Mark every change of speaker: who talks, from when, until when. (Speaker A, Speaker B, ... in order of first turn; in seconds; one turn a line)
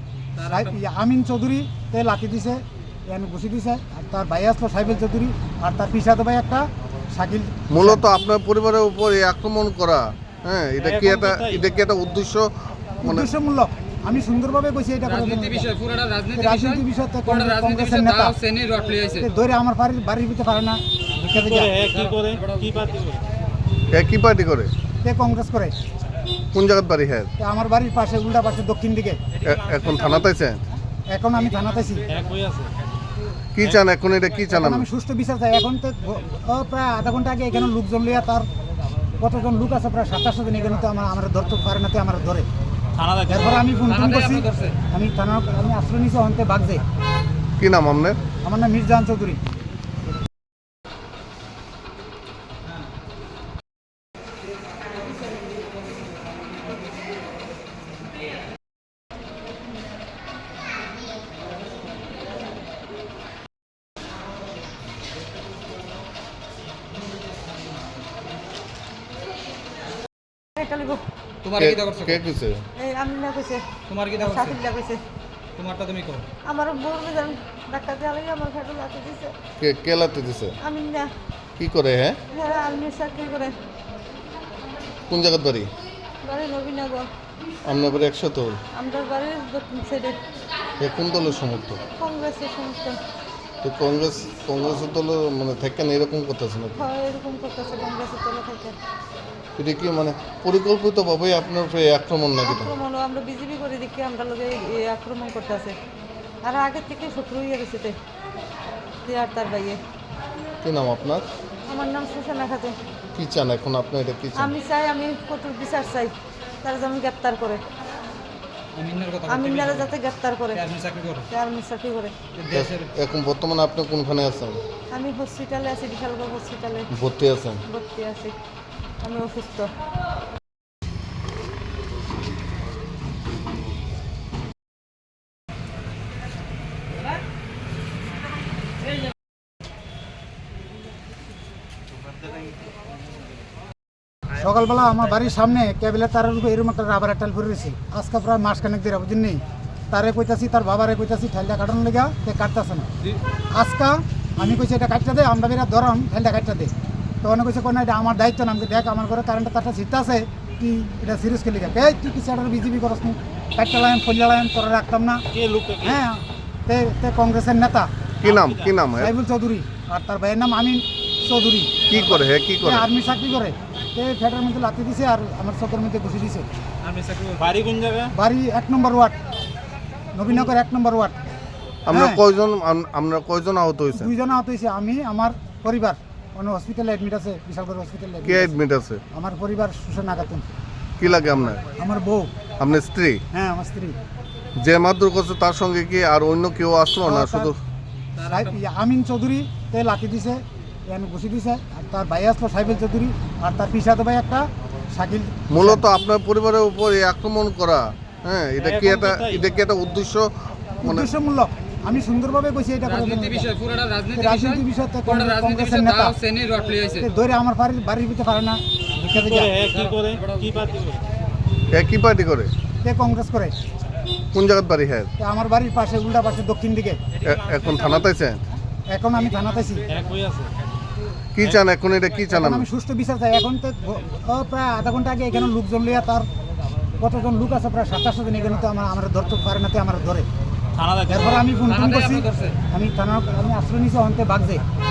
Speaker A: 0.3-0.8
Speaker B: 0.4-8.0
Speaker C: 7.7-13.3
Speaker D: 10.8-11.6
Speaker B: 13.0-15.7
Speaker A: 15.0-19.3
Speaker B: 16.3-18.4
Speaker B: 19.2-21.7
Speaker D: 21.2-23.2
Speaker C: 23.9-24.7
Speaker B: 25.0-25.7
Speaker C: 26.5-27.3
Speaker B: 27.4-29.2
Speaker C: 29.4-30.6
Speaker B: 31.1-32.1
Speaker D: 32.1-32.7
Speaker C: 33.5-34.9
Speaker B: 34.5-38.5
Speaker B: 39.2-42.5
Speaker D: 43.0-43.5
Speaker B: 43.3-46.8
Speaker A: 43.5-44.8
Speaker C: 47.6-48.2
Speaker B: 48.4-49.4
Speaker E: 70.5-71.0
Speaker A: 71.4-72.2
Speaker C: 71.6-72.7
Speaker E: 72.8-75.0
Speaker A: 73.9-74.6
Speaker A: 75.6-76.2
Speaker E: 76.4-79.3
Speaker C: 79.6-80.6
Speaker E: 80.6-81.1
Speaker C: 81.6-82.2
Speaker E: 82.3-83.6
Speaker C: 85.1-85.7
Speaker E: 86.2-87.1
Speaker C: 87.6-88.6
Speaker E: 88.7-90.2
Speaker C: 90.8-91.8
Speaker E: 92.0-93.0
Speaker C: 93.6-96.8
Speaker E: 96.8-98.8
Speaker C: 99.6-102.7
Speaker E: 102.4-105.8
Speaker E: 106.4-108.0
Speaker E: 109.0-109.8
Speaker C: 110.6-111.2
Speaker E: 111.7-112.8
Speaker C: 113.1-114.5
Speaker E: 114.4-117.6
Speaker A: 118.7-119.9
Speaker E: 119.3-120.6
Speaker A: 120.5-121.3
Speaker E: 121.3-122.2
Speaker A: 122.3-122.9
Speaker C: 122.5-124.6
Speaker E: 124.9-126.9
Speaker C: 126.9-127.6
Speaker E: 127.6-128.4
Speaker E: 129.0-129.7
Speaker B: 144.3-152.9
Speaker B: 153.5-156.7
Speaker B: 157.2-165.2
Speaker D: 165.3-166.0
Speaker B: 165.8-167.9
Speaker C: 168.2-169.1
Speaker D: 168.2-168.8
Speaker B: 168.9-176.5
Speaker C: 171.9-172.9
Speaker A: 176.8-177.5
Speaker D: 177.4-178.1
Speaker B: 178.1-179.2
Speaker B: 180.1-181.2
Speaker C: 181.9-184.1
Speaker B: 181.9-182.2
Speaker B: 183.9-188.6
Speaker C: 188.2-189.0
Speaker B: 189.1-190.5
Speaker C: 191.0-191.6
Speaker B: 191.8-192.3
Speaker C: 192.6-193.2
Speaker B: 193.3-193.9
Speaker C: 194.6-197.6
Speaker B: 197.0-197.5
Speaker A: 198.2-198.6
Speaker B: 198.2-205.8
Speaker C: 205.5-211.1
Speaker D: 208.6-209.4
Speaker B: 210.8-213.5
Speaker A: 212.8-217.1
Speaker B: 214.1-216.2
Speaker B: 216.9-219.5
Speaker D: 219.0-221.0
Speaker C: 221.7-222.5
Speaker B: 222.8-223.6
Speaker C: 224.3-225.1
Speaker B: 225.2-227.0
Speaker C: 227.2-228.4
Speaker B: 228.9-229.9
Speaker D: 229.9-230.5
Speaker C: 231.3-232.7
Speaker B: 232.3-236.3
Speaker B: 237.0-240.3
Speaker D: 240.8-241.3
Speaker B: 241.1-244.6
Speaker A: 241.5-242.6